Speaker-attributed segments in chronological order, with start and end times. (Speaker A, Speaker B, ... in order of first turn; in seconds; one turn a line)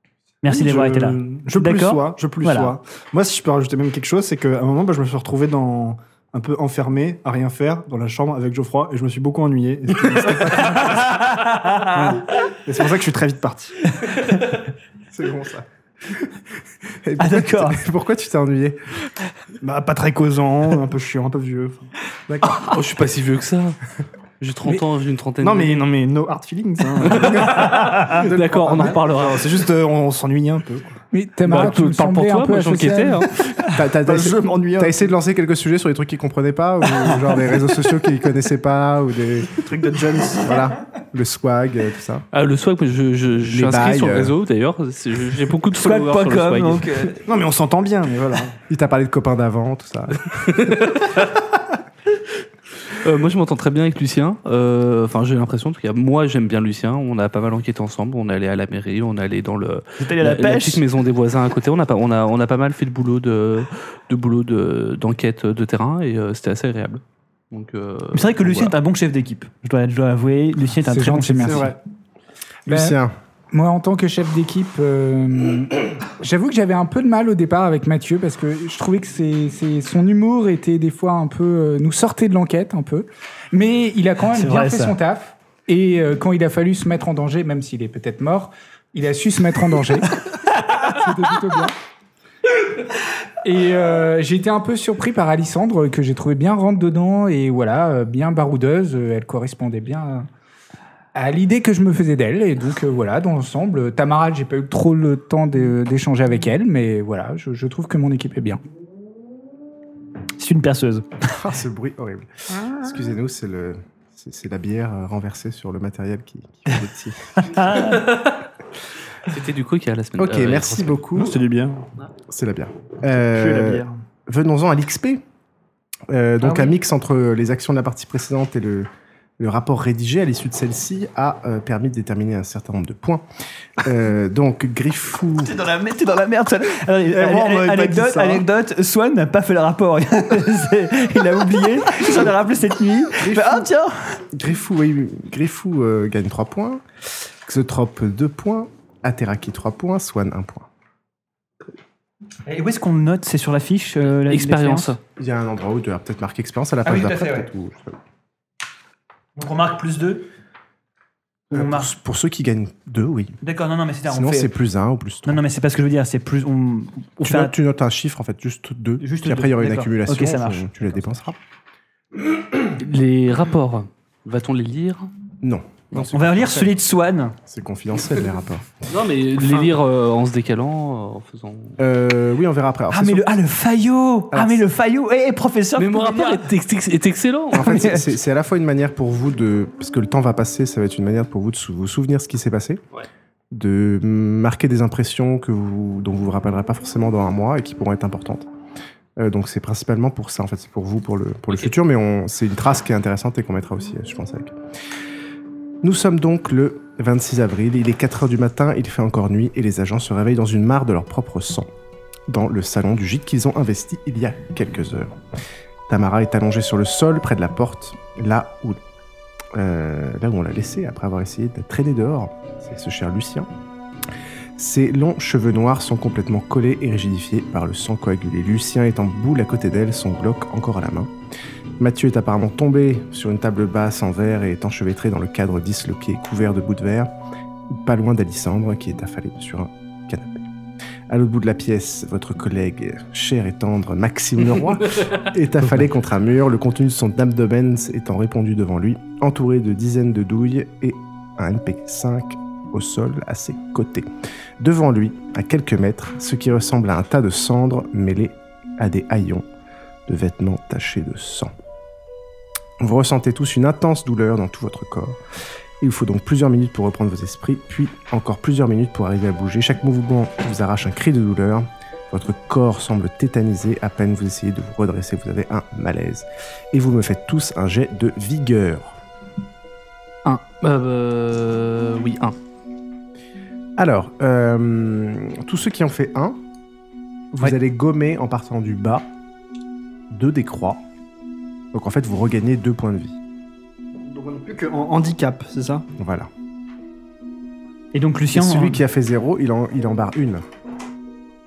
Speaker A: 0.4-2.8
Speaker B: 0.5-11.2
Speaker A: 11.0-12.1
Speaker B: 11.8-13.9
Speaker C: 15.1-16.4
Speaker C: 17.0-18.9
Speaker A: 17.2-17.8
Speaker B: 19.6-21.9
Speaker C: 22.3-22.7
Speaker D: 22.5-23.8
Speaker D: 24.4-25.9
Speaker B: 25.4-31.0
Speaker D: 27.0-29.7
Speaker A: 27.9-28.1
Speaker E: 31.1-33.3
Speaker D: 31.4-33.3
Speaker C: 33.7-39.6
Speaker B: 33.8-35.1
Speaker B: 39.5-40.7
Speaker C: 40.4-42.3
Speaker D: 42.3-47.0
Speaker C: 43.4-44.3
Speaker A: 45.8-47.2
Speaker B: 47.2-48.6
Speaker C: 48.7-50.8
Speaker D: 50.3-51.5
Speaker D: 52.8-68.8
Speaker A: 60.0-60.8
Speaker A: 68.1-71.7
Speaker E: 70.8-71.7
Speaker C: 71.4-71.8
Speaker E: 72.7-73.0
Speaker C: 72.7-73.1
Speaker E: 73.5-91.7
Speaker A: 84.3-85.0
Speaker E: 93.4-100.3
Speaker E: 101.1-108.6
Speaker A: 110.4-111.2
Speaker C: 111.3-117.5
Speaker A: 117.4-118.1
Speaker D: 117.8-118.3
Speaker D: 119.3-121.0
Speaker C: 120.2-121.4
Speaker B: 121.1-121.9
Speaker C: 122.3-125.2
Speaker B: 123.2-124.0
Speaker C: 126.1-133.3
Speaker A: 126.4-126.7
Speaker C: 133.8-135.6
Speaker A: 135.4-144.2
Speaker B: 137.1-138.4
Speaker C: 143.2-143.7
Speaker C: 144.3-146.8
Speaker C: 147.4-150.7
Speaker A: 152.5-154.9
Speaker D: 154.0-155.0
Speaker C: 155.2-158.0
Speaker A: 156.8-157.5
Speaker A: 159.4-160.3
Speaker A: 161.5-161.9
Speaker C: 161.5-163.4
Speaker A: 163.4-164.5
Speaker C: 164.1-165.4
Speaker A: 165.2-167.6
Speaker C: 167.2-171.4
Speaker A: 169.0-171.1
Speaker D: 172.5-175.1
Speaker C: 175.4-176.7
Speaker A: 176.1-177.4
Speaker C: 177.5-178.8
Speaker D: 178.9-181.8
Speaker C: 181.8-183.3
Speaker A: 182.9-186.5
Speaker C: 184.3-184.6
Speaker D: 185.8-187.9
Speaker C: 187.5-192.8
Speaker A: 187.6-188.0
Speaker C: 193.5-198.5
Speaker C: 199.2-204.5
Speaker C: 205.8-211.7
Speaker C: 212.3-215.2
Speaker C: 215.9-218.8
Speaker C: 219.6-223.5
Speaker C: 224.6-231.1
Speaker C: 231.8-237.1
Speaker C: 237.7-240.5
Speaker C: 241.1-259.5
Speaker D: 244.8-245.2
Speaker C: 260.1-261.5
Speaker C: 262.8-265.2
Speaker C: 265.8-279.0
Speaker D: 280.2-282.4
Speaker C: 283.8-286.4
Speaker C: 287.3-289.1
Speaker C: 290.1-290.8
Speaker C: 291.7-293.2
Speaker B: 294.0-295.9
Speaker C: 296.0-296.3
Speaker A: 297.9-298.8
Speaker C: 298.3-300.4